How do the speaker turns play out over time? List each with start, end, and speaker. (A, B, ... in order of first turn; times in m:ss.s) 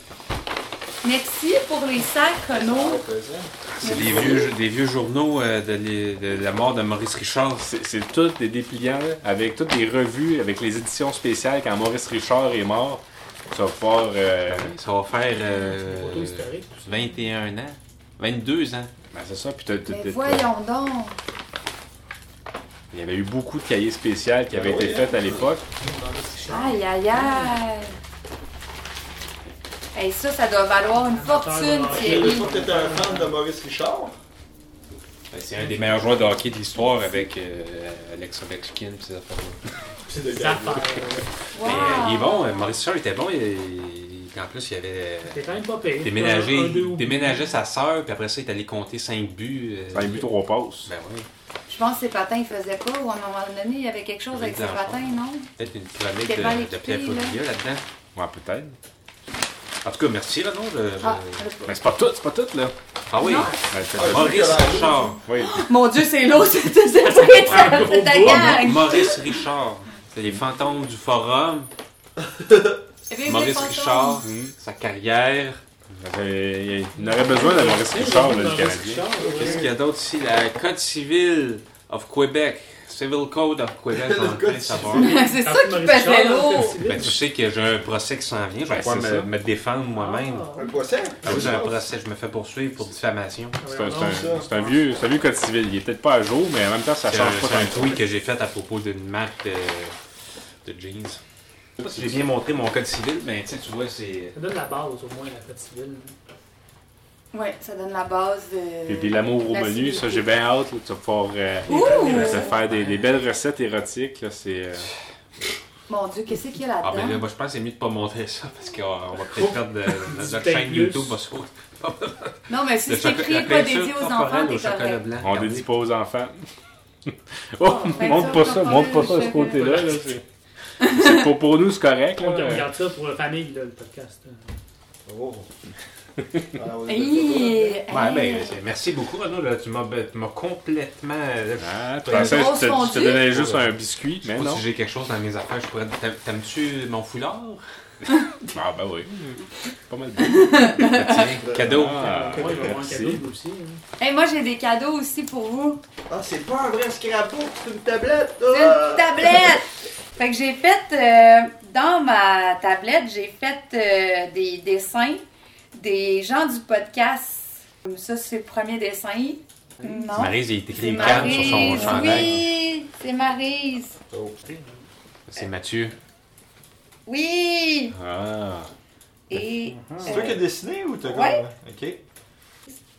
0:01.0-0:03.0 A
0:02.5-0:03.5 B
0:03.8-0:07.7 C
0:03.8-0:04.5 A
0:07.6-0:14.7 D
0:14.5-0:18.9 C
0:15.7-0:17.2 E
0:19.1-0:20.5 D
0:19.9-0:21.2 A
0:22.9-0:25.6 D
0:24.5-0:26.4 B
0:25.8-0:27.6 E
0:26.5-0:27.9 A
0:29.9-0:32.5 A
0:31.0-0:33.3 E
0:31.9-0:34.2 B
0:35.3-0:39.6 C
0:35.6-0:35.9 E
0:40.1-0:42.1 E
0:40.1-0:41.0 B
0:41.5-0:42.8 A
0:41.6-0:45.5 C
0:45.2-0:47.5 E
0:46.0-0:50.3 C
0:49.9-0:50.9 D
0:50.8-0:51.3 C
0:51.7-0:55.5 A
0:54.3-0:57.8 C
0:56.2-0:57.4 A
0:58.1-0:58.8 D
0:59.8-1:01.5 C
1:01.0-1:01.8 A
1:01.6-1:02.7 D
1:03.1-1:05.2 C
1:03.2-1:03.6 A
1:03.7-1:04.6 D
1:03.9-1:05.1 B
1:05.2-1:05.6 D
1:05.4-1:09.4 A
1:07.1-1:08.7 E
1:07.5-1:11.7 C
1:12.2-1:12.8 B
1:13.1-1:14.2 A
1:13.2-1:15.6 C
1:14.2-1:14.5 D
1:15.9-1:19.1 D
1:17.0-1:19.7 E
1:19.2-1:19.7 B
1:19.2-1:25.2 C
1:23.9-1:25.2 B
1:25.0-1:26.8 A
1:25.2-1:27.1 E
1:26.8-1:30.5 C
1:28.7-1:29.3 D
1:29.9-1:30.7 E
1:30.6-1:31.8 B
1:31.2-1:33.6 C
1:33.6-1:34.8 E
1:33.7-1:38.0 D
1:33.9-1:34.4 B
1:37.0-1:39.9 C
1:40.6-1:41.2 C
1:41.8-1:44.3 C
1:41.8-1:42.1 D
1:44.3-1:46.1 E
1:47.3-1:50.3 A
1:48.9-1:54.9 D
1:51.7-1:52.5 E
1:51.7-1:52.5 A
1:51.8-1:53.0 C
1:55.9-1:57.2 A
1:56.8-2:05.7 C
1:59.4-2:01.2 E
2:02.5-2:05.0 A
2:05.2-2:06.4 D
2:07.0-2:10.2 D
2:07.6-2:09.8 A
2:08.0-2:08.2 E
2:10.8-2:11.3 A
2:10.8-2:12.7 D
2:12.2-2:14.5 E
2:15.0-2:15.5 B
2:16.5-2:17.8 B
2:16.9-2:18.6 A
2:17.9-2:22.6 C
2:21.6-2:24.6 D
2:22.1-2:23.3 A
2:23.2-2:27.6 C
2:28.5-2:30.8 D
2:30.2-2:31.3 A
2:30.8-2:32.2 C
2:31.3-2:32.8 B
2:31.6-2:33.2 D
2:32.0-2:33.8 E
2:34.0-2:35.8 A
2:36.1-2:39.6 B
2:38.5-2:45.2 A
2:45.7-2:54.0 A
2:49.8-2:50.2 E
2:50.1-2:52.4 C
2:51.0-2:52.2 D
2:51.4-2:52.2 E
2:54.1-2:54.4 B
2:55.3-2:56.0 C
2:57.0-2:58.0 A
2:57.9-2:58.7 D
2:59.3-3:00.4 A
2:59.6-3:00.3 E
3:00.0-3:02.0 B
3:01.0-3:01.4 A